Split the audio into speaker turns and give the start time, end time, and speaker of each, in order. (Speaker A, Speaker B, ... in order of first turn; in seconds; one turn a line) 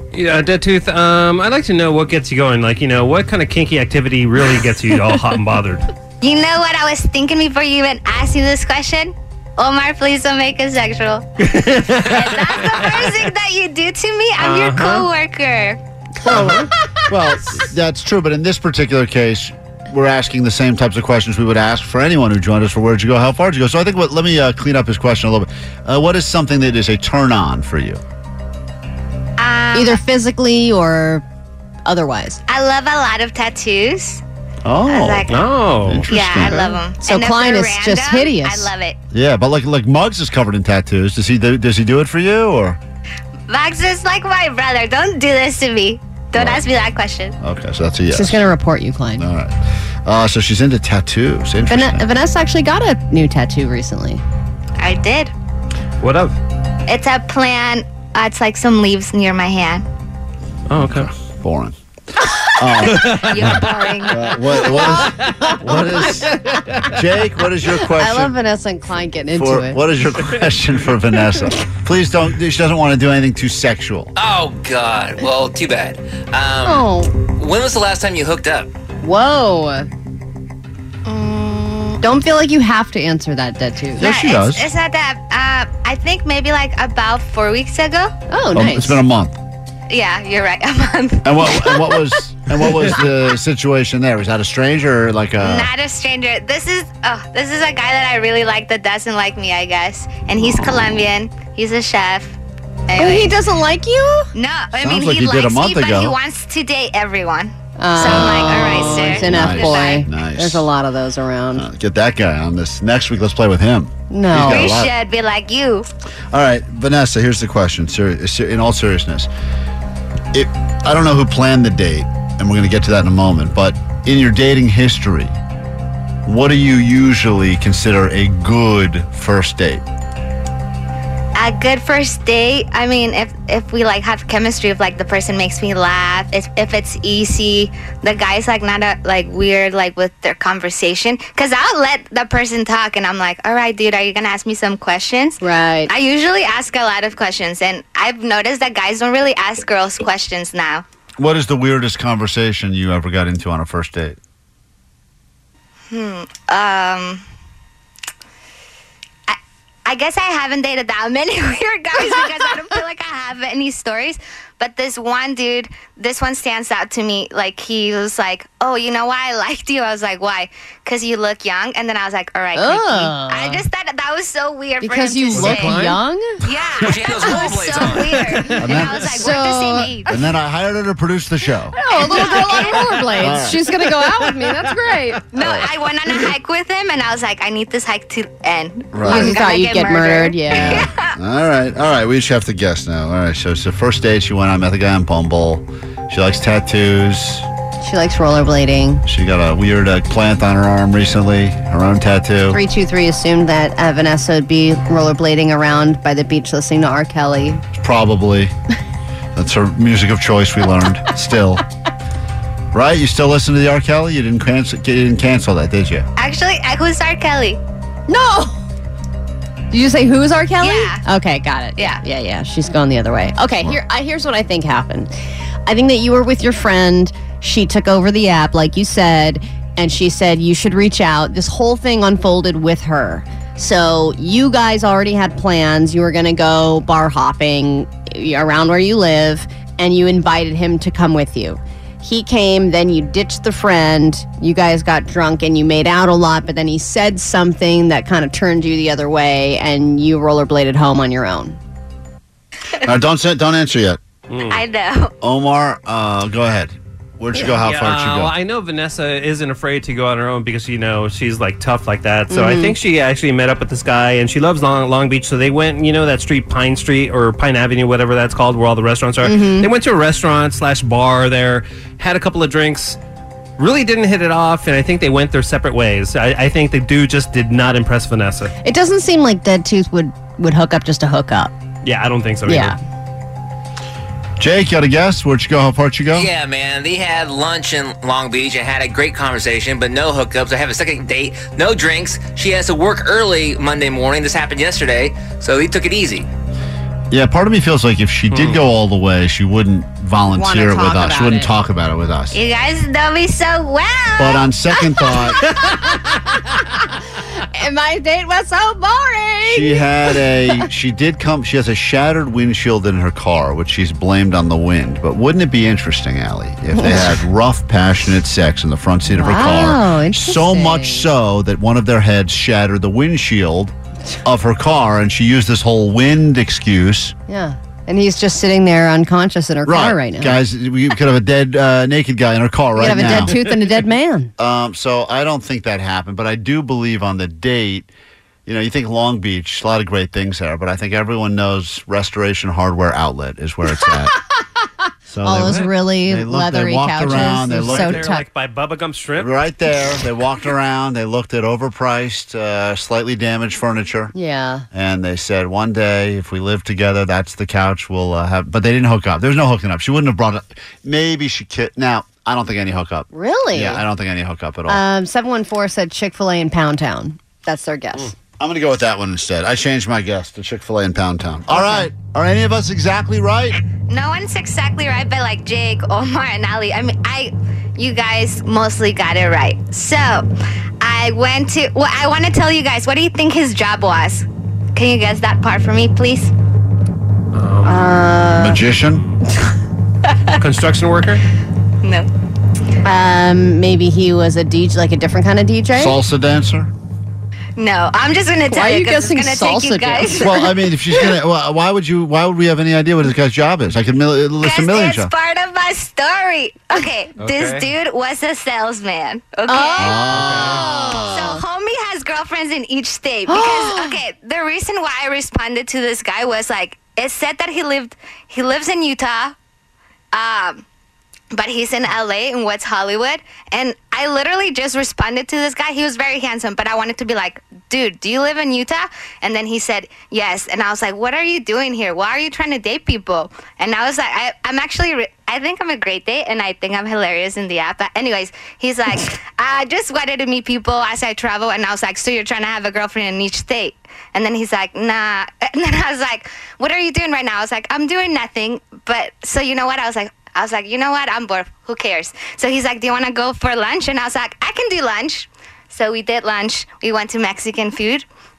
Speaker A: 0.1-5.9
Speaker B: 6.2-11.3
Speaker A: 11.4-13.0
Speaker B: 12.1-15.8
Speaker A: 14.4-15.1
Speaker C: 16.2-28.0
Speaker A: 16.4-16.7
Speaker B: 29.4-30.0
Speaker D: 29.7-31.2
Speaker D: 31.9-32.4
Speaker B: 32.5-34.2
Speaker C: 34.6-35.3
Speaker B: 34.9-35.5
Speaker A: 35.3-36.7
Speaker C: 35.9-36.6
Speaker B: 36.1-39.0
Speaker D: 37.0-38.7
Speaker C: 39.1-42.8
Speaker B: 43.5-47.4
Speaker C: 46.3-46.6
Speaker C: 47.4-48.4
Speaker D: 48.1-49.2
Speaker C: 49.2-52.0
Speaker D: 51.7-54.2
Speaker B: 54.8-55.3
Speaker A: 56.0-56.4
Speaker B: 56.9-59.8
Speaker A: 60.7-61.1
Speaker C: 60.9-61.8
Speaker C: 62.6-63.6
Speaker A: 63.0-63.3
Speaker B: 63.1-64.2
Speaker C: 64.1-66.3
Speaker D: 64.8-65.1
Speaker C: 66.9-68.3
Speaker D: 67.8-69.8
Speaker C: 69.4-74.1
Speaker E: 74.2-78.7
Speaker D: 76.6-77.1
Speaker D: 79.0-79.9
Speaker B: 81.1-82.0
Speaker D: 82.0-84.0
Speaker C: 84.0-84.7
Speaker B: 84.0-88.1
Speaker D: 88.3-89.0
Speaker C: 88.5-89.4
Speaker B: 89.9-91.8
Speaker C: 91.2-95.7
Speaker B: 95.4-102.4
Speaker C: 100.4-101.0
Speaker B: 102.9-103.3
Speaker D: 103.0-104.3
Speaker B: 104.3-110.1
Speaker C: 104.8-106.2
Speaker D: 107.8-111.7
Speaker C: 108.0-110.7
Speaker C: 111.6-114.9
Speaker D: 114.1-114.8
Speaker B: 114.5-115.9
Speaker C: 116.3-119.3
Speaker C: 120.3-125.3
Speaker C: 126.3-129.8
Speaker B: 131.4-150.8
Speaker D: 145.4-145.9
Speaker C: 151.2-154.2
Speaker B: 155.9-157.2
Speaker B: 159.3-175.8
Speaker D: 172.6-173.6
Speaker D: 174.8-176.4
Speaker A: 175.4-176.0
Speaker B: 176.4-180.1
Speaker E: 176.8-178.1
Speaker D: 177.2-177.7
Speaker A: 178.0-178.4
Speaker C: 178.6-179.1
Speaker D: 179.0-180.0
Speaker C: 180.1-181.8
Speaker D: 181.8-185.2
Speaker B: 182.1-182.7
Speaker C: 183.2-183.6
Speaker A: 184.0-184.7
Speaker B: 185.3-191.1
Speaker C: 185.4-185.7
Speaker C: 188.9-189.4
Speaker D: 189.0-190.9
Speaker C: 190.5-197.5
Speaker D: 197.8-199.0
Speaker C: 199.1-202.6
Speaker D: 202.5-207.6
Speaker C: 207.7-208.5
Speaker C: 209.3-211.6
Speaker C: 212.7-216.1
Speaker B: 216.2-217.6
Speaker D: 218.1-218.6
Speaker D: 219.7-225.1
Speaker B: 220.6-221.0
Speaker B: 221.8-222.0
Speaker D: 225.7-251.6
Speaker C: 252.8-254.0
Speaker A: 254.3-254.6
Speaker B: 254.5-255.1
Speaker C: 255.2-258.3
Speaker A: 257.4-273.0
Speaker D: 262.3-262.8
Speaker D: 269.2-269.7
Speaker A: 273.6-278.5
Speaker D: 278.6-281.5
Speaker A: 281.8-282.8
Speaker D: 282.5-282.8
Speaker C: 284.4-286.3
Speaker E: 286.1-296.3
Speaker C: 297.1-302.4
Speaker A: 298.3-298.6
Speaker D: 300.3-301.5
Speaker B: 302.3-304.5
Speaker C: 304.2-305.4
Speaker D: 307.4-310.6
Speaker C: 309.5-323.7
Speaker D: 316.7-317.2
Speaker D: 319.1-321.1
Speaker C: 324.2-327.1
Speaker D: 327.3-330.4
Speaker C: 329.7-333.4
Speaker D: 332.8-334.3
Speaker C: 334.4-337.9
Speaker C: 338.5-344.1
Speaker C: 345.1-348.0
Speaker D: 345.2-348.2
Speaker A: 345.4-345.7
Speaker A: 347.2-349.3
Speaker C: 349.2-354.1
Speaker D: 354.1-354.7
Speaker C: 354.7-364.8
Speaker D: 363.1-363.8
Speaker D: 364.7-368.1
Speaker C: 368.4-373.6
Speaker D: 371.5-371.9
Speaker B: 373.9-380.3
Speaker B: 380.8-386.3
Speaker A: 387.3-388.0
Speaker D: 387.6-388.6
Speaker C: 388.3-389.0
Speaker B: 390.1-390.4
Speaker A: 390.4-391.2
Speaker B: 391.8-392.1
Speaker D: 392.8-396.0
Speaker C: 395.8-396.7
Speaker B: 397.6-400.5
Speaker D: 398.5-400.5
Speaker C: 400.1-405.1
Speaker B: 404.4-410.0
Speaker D: 409.5-411.2
Speaker C: 409.8-411.4
Speaker A: 410.2-410.6
Speaker B: 411.0-419.4
Speaker D: 413.3-414.0
Speaker B: 420.1-420.6
Speaker B: 421.3-458.1